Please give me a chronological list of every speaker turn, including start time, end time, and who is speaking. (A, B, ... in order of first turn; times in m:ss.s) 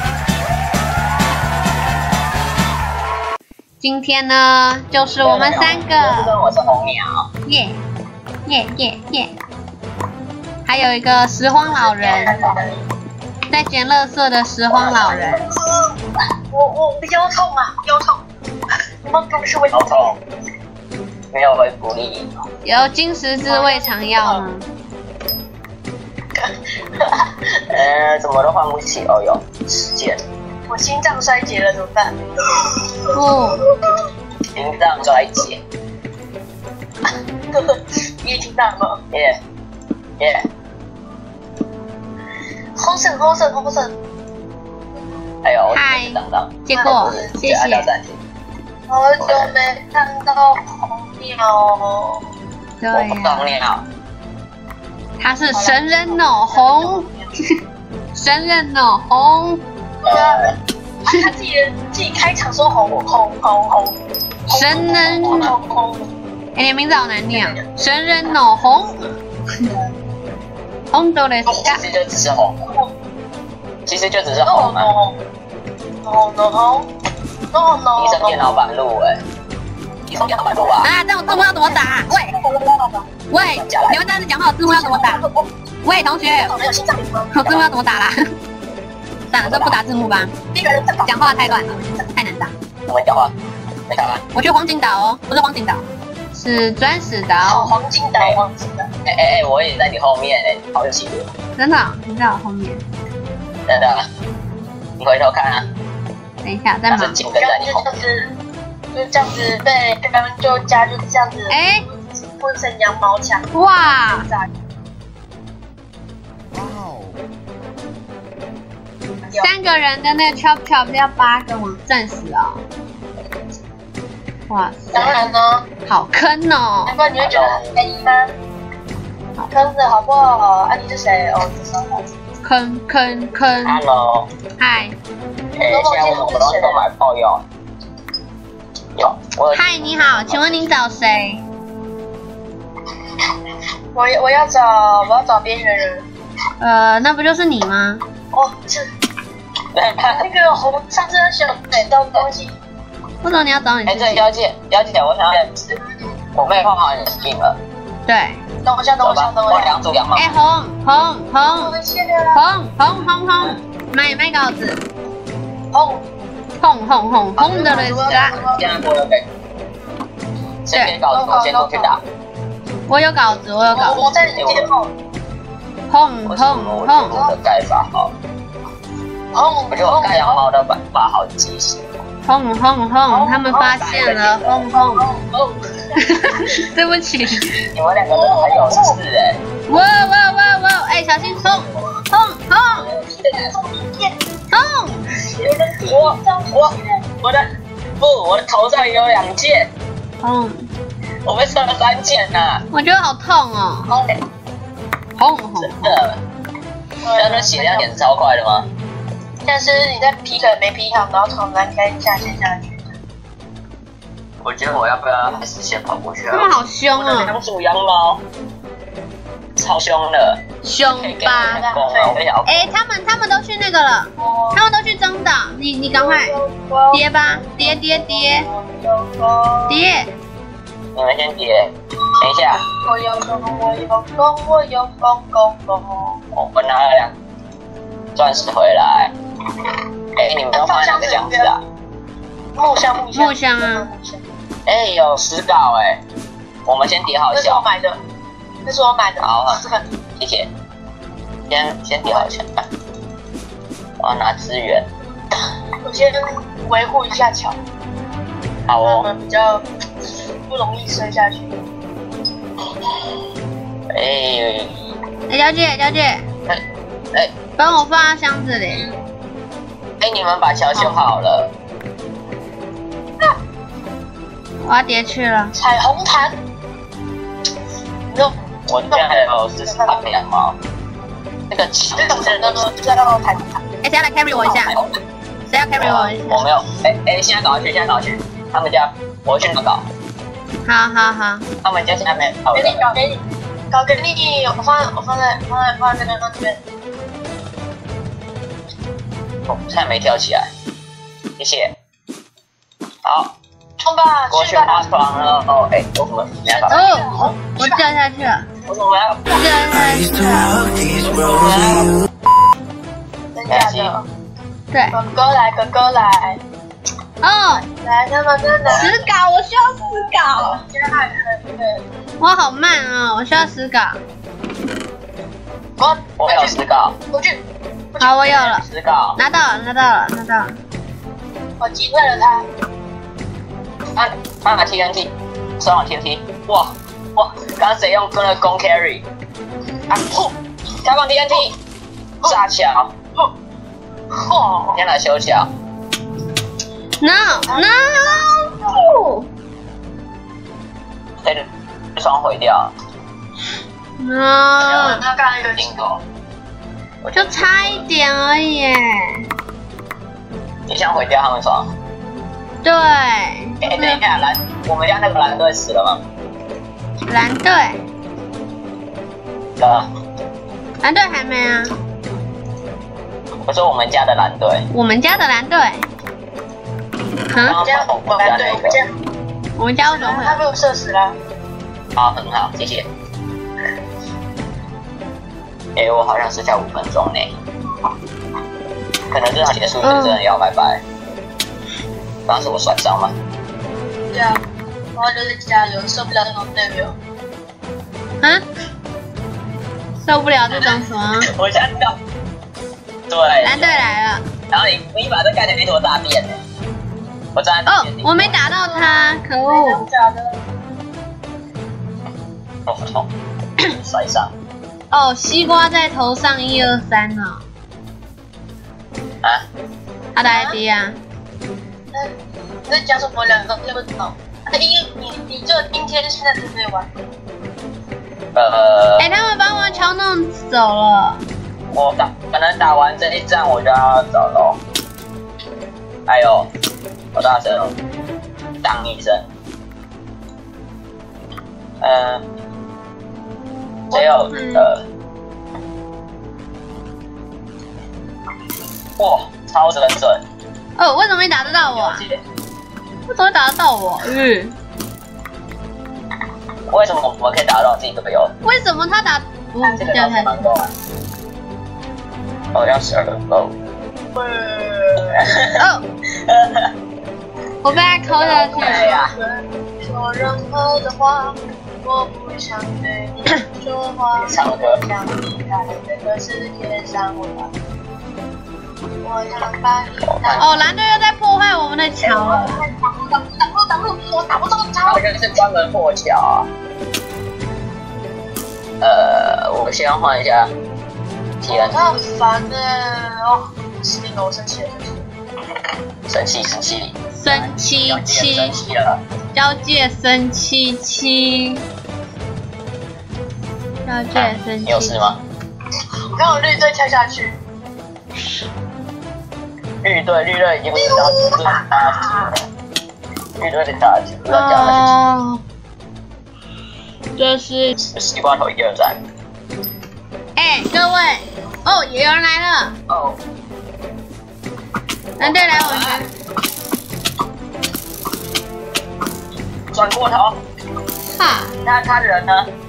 0:03.8-0:06.4 A
0:05.2-0:07.3 B
0:07.4-0:07.8 A
0:08.5-0:09.3 A
0:10.7-0:12.4 A
0:11.6-0:12.8 C
0:13.5-0:15.4 A
0:14.8-0:15.9 C
0:14.8-0:15.2 B
0:16.5-0:18.2 C
0:19.0-0:20.2 C
0:19.7-0:20.2 B
0:21.3-0:22.4 B
0:22.6-0:24.7 A
0:23.5-0:24.5 C
0:26.4-0:27.3 C
0:27.7-0:30.2 B
0:30.7-0:34.0 C
0:33.1-0:33.6 A
0:34.6-0:35.6 B
0:37.5-0:39.0 C
0:39.1-0:39.4 B
0:40.2-0:40.5 B
0:42.8-0:44.0 C
0:45.4-0:48.2 B
0:45.7-0:47.9 A
0:46.7-0:47.4 C
0:48.9-0:52.3 C
0:49.2-0:49.5 B
0:52.8-0:53.5 A
0:52.9-0:53.8 B
0:55.2-0:57.1 A
0:55.5-0:57.4 C
0:58.1-0:59.6 A
1:00.0-1:00.5 C
1:01.1-1:04.0 C
1:04.5-1:06.1 C
1:04.5-1:05.5 A
1:06.6-1:09.0 A
1:07.3-1:07.8 C
1:10.9-1:11.8 A
1:11.5-1:12.6 B
1:13.9-1:14.9 B
1:14.4-1:15.2 C
1:16.0-1:16.9 C
1:17.5-1:18.6 C
1:18.0-1:19.2 B
1:20.1-1:20.9 B
1:20.8-1:22.4 A
1:21.5-1:23.0 C
1:23.3-1:25.2 A
1:23.6-1:24.0 B
1:24.7-1:25.4 C
1:25.8-1:26.6 A
1:26.3-1:27.6 C
1:27.3-1:28.2 A
1:29.3-1:30.3 A
1:29.4-1:29.8 B
1:30.5-1:31.8 C
1:31.0-1:32.5 A
1:32.9-1:33.3 B
1:33.9-1:34.2 B
1:34.3-1:37.7 A
1:37.4-1:38.9 C
1:39.0-1:41.3 B
1:41.6-1:42.8 A
1:43.7-1:44.0 B
1:45.0-1:45.7 B
1:46.4-1:47.2 A
1:46.9-1:47.9 B
1:47.3-1:48.3 C
1:48.9-1:51.6 C
1:51.5-1:51.8 A
1:52.2-1:53.5 C
1:53.5-1:54.3 A
1:54.1-1:54.5 C
1:59.4-2:02.6 A
2:04.5-2:05.2 A
2:04.9-2:05.7 C
2:05.9-2:07.0 A
2:06.9-2:08.3 C
2:07.2-2:07.7 B
2:09.5-2:12.1 C
2:12.4-2:13.8 A
2:13.6-2:14.3 B
2:14.6-2:15.0 A
2:15.6-2:17.4 B
2:15.6-2:16.8 C
2:19.0-2:20.7 B
2:19.5-2:21.4 A
2:23.9-2:26.1 C
2:26.6-2:28.0 A
2:28.3-2:28.9 C
2:29.7-2:30.2 B
2:30.1-2:32.6 C
2:33.2-2:34.2 A
2:33.9-2:35.8 B
2:36.4-2:37.6 B
2:38.1-2:38.4 A
2:38.6-2:39.8 C
2:39.0-2:40.4 B
2:40.2-2:41.7 A
2:41.4-2:42.5 C
2:42.3-2:44.8 A
2:45.7-2:46.0 C
2:46.6-2:48.4 A
2:47.4-2:48.7 C
2:47.5-2:49.3 B
2:50.6-2:52.0 B
2:51.1-2:52.0 C
2:52.9-2:54.0 A
2:53.7-2:54.9 C
2:54.4-2:54.7 B
2:55.9-2:57.2 A
2:56.3-2:58.1 B
2:57.1-2:57.4 C
2:59.3-3:00.5 C
2:59.7-3:01.8 B
3:02.2-3:05.1 A
3:03.1-3:03.9 C
3:03.6-3:04.7 B
3:05.0-3:06.4 C
3:06.0-3:07.6 A
3:07.7-3:09.4 B
3:08.1-3:09.0 C
3:09.7-3:12.9 A
3:12.7-3:14.2 C
3:12.9-3:13.6 B
3:14.5-3:15.1 A
3:15.2-3:17.0 C
3:15.9-3:17.5 B
3:18.0-3:19.7 B
3:20.2-3:20.7 A
3:21.2-3:22.6 B
3:22.7-3:23.9 A
3:23.9-3:24.2 C
3:25.2-3:26.0 A
3:25.6-3:26.2 B
3:27.0-3:27.9 C
3:27.2-3:28.7 B
3:29.4-3:32.9 C
3:34.4-3:38.2 B
3:36.3-3:37.4 A
3:39.6-3:40.4 B
3:40.6-3:41.6 A
3:41.0-3:42.7 B
3:41.5-3:42.2 C
3:42.4-3:46.4 A
3:44.2-3:44.6 C
3:45.9-3:49.8 C
3:46.9-3:48.5 A
3:49.7-3:50.1 A
3:51.0-3:52.7 B
3:52.7-3:56.2 C
3:56.3-3:57.1 B
3:58.2-3:59.1 B
4:00.2-4:01.6 B
4:00.5-4:01.6 C
4:02.6-4:04.2 C
4:03.1-4:03.9 A
4:04.7-4:06.0 B
4:06.7-4:07.6 B
4:07.3-4:08.0 C
4:08.6-4:09.8 C
4:09.2-4:09.6 B
4:10.2-4:10.5 B
4:11.5-4:12.6 B
4:14.0-4:14.9 B
4:15.8-4:17.6 C
4:18.7-4:19.1 B
4:18.8-4:19.6 C
4:20.5-4:21.5 C
4:23.9-4:24.8 B
4:25.3-4:26.2 A
4:27.6-4:28.9 A
4:28.7-4:29.0 C
4:30.0-4:31.5 B
4:34.6-4:35.5 A
4:35.6-4:36.4 C
4:38.1-4:38.4 C
4:38.7-4:40.6 B
4:38.9-4:40.1 C
4:41.5-4:42.6 B
4:42.0-4:43.6 C
4:43.8-4:44.7 A
4:44.3-4:45.0 B
4:45.5-4:46.5 A
4:45.8-4:49.9 B
4:50.6-4:51.5 A
4:51.6-4:52.9 B
4:52.5-4:56.6 C
4:59.5-5:00.5 B
5:01.4-5:01.7 B
5:03.0-5:03.3 B
5:03.8-5:04.9 C
5:04.3-5:06.8 B
5:06.4-5:07.9 C
5:06.7-5:08.5 A
5:08.7-5:09.4 B
5:09.3-5:10.7 A
5:11.0-5:11.9 B
5:13.3-5:14.1 C
5:13.5-5:13.9 B
5:14.7-5:15.0 A
5:14.9-5:16.4 C
5:17.2-5:17.6 A
5:17.6-5:18.9 C
5:18.7-5:19.0 B
5:18.7-5:20.6 A
5:19.9-5:21.8 C
5:22.2-5:24.0 A
5:25.8-5:27.4 C
5:26.2-5:27.0 B
5:27.9-5:28.6 C
5:28.0-5:28.6 A
5:28.5-5:29.2 B
5:29.2-5:30.6 A
5:31.6-5:32.5 C
5:34.0-5:39.0 B
5:40.8-5:41.6 B
5:42.2-5:42.9 B
5:44.2-5:44.8 C
5:44.7-5:45.5 B
5:47.0-5:49.3 A
5:47.3-5:48.3 C
5:51.2-5:52.7 B
5:54.0-5:55.0 A
5:54.6-5:55.0 B
5:54.7-5:55.7 C
5:55.6-5:56.0 B
5:57.0-5:57.9 B
5:57.2-5:59.2 A
6:00.7-6:01.7 B
6:02.6-6:04.0 A
6:03.6-6:06.0 B
6:07.1-6:07.8 A
6:09.6-6:09.9 B
6:10.8-6:11.7 A
6:13.5-6:14.7 B
6:14.7-6:15.9 A
6:17.3-6:17.6 A
6:17.4-6:18.8 B
6:17.5-6:18.9 C
6:19.6-6:20.4 A
6:19.9-6:21.2 C
6:22.0-6:22.9 B
6:25.8-6:27.3 B
6:29.1-6:30.8 B
6:29.8-6:30.2 A
6:32.3-6:33.1 B
6:34.1-6:34.4 C
6:35.0-6:37.0 C
6:40.0-6:41.3 A
6:40.6-6:42.0 B
6:43.1-6:43.8 B
6:43.4-6:44.2 A
6:44.5-6:46.4 B
6:47.4-6:48.4 B
6:47.7-6:49.8 A
6:48.4-6:50.4 C
6:52.7-6:53.1 B
6:53.6-6:54.3 B
6:54.9-6:57.4 A
7:00.2-7:01.0 A
7:00.2-7:00.6 C
7:02.7-7:06.9 C
7:08.3-7:09.3 B
7:09.0-7:11.2 A
7:11.7-7:14.6 B
7:16.1-7:16.5 B
7:17.1-7:17.7 B
7:18.6-7:19.2 B
7:21.8-7:22.2 B
7:23.9-7:24.8 B
7:23.9-7:24.7 A
7:29.0-7:30.2 B
7:30.8-7:32.0 A
7:31.5-7:32.2 B
7:33.1-7:34.5 A
7:36.7-7:38.3 B
7:38.4-7:40.4 A
7:39.6-7:40.7 B
7:42.5-7:43.6 B
7:44.1-7:45.3 C
7:45.2-7:45.6 B
7:45.5-7:45.9 A
7:46.3-7:46.7 B
7:47.6-7:48.9 A
7:48.1-7:49.1 B
7:48.2-7:57.5 C
7:54.2-7:54.8 B
7:59.0-8:00.7 C
8:00.1-8:00.5 B
8:00.4-8:02.6 A
8:02.0-8:05.0 C
8:04.9-8:06.5 B
8:08.8-8:10.5 B
8:11.4-8:15.0 C
8:11.5-8:11.8 B
8:16.1-8:19.0 B
8:17.1-8:18.6 A
8:19.3-8:21.6 A
8:23.8-8:25.1 A
8:24.1-8:25.2 B
8:26.1-8:27.4 C
8:29.8-8:32.3 B
8:30.8-8:32.3 C
8:33.4-8:34.9 B
8:34.3-8:35.4 A
8:37.2-8:37.8 A
8:37.8-8:39.0 B
8:40.4-8:42.7 A
8:42.9-8:43.2 B
8:45.2-8:46.0 B
8:45.2-8:46.1 A
8:49.7-8:50.4 B
8:51.1-8:51.5 A
8:51.6-8:52.5 B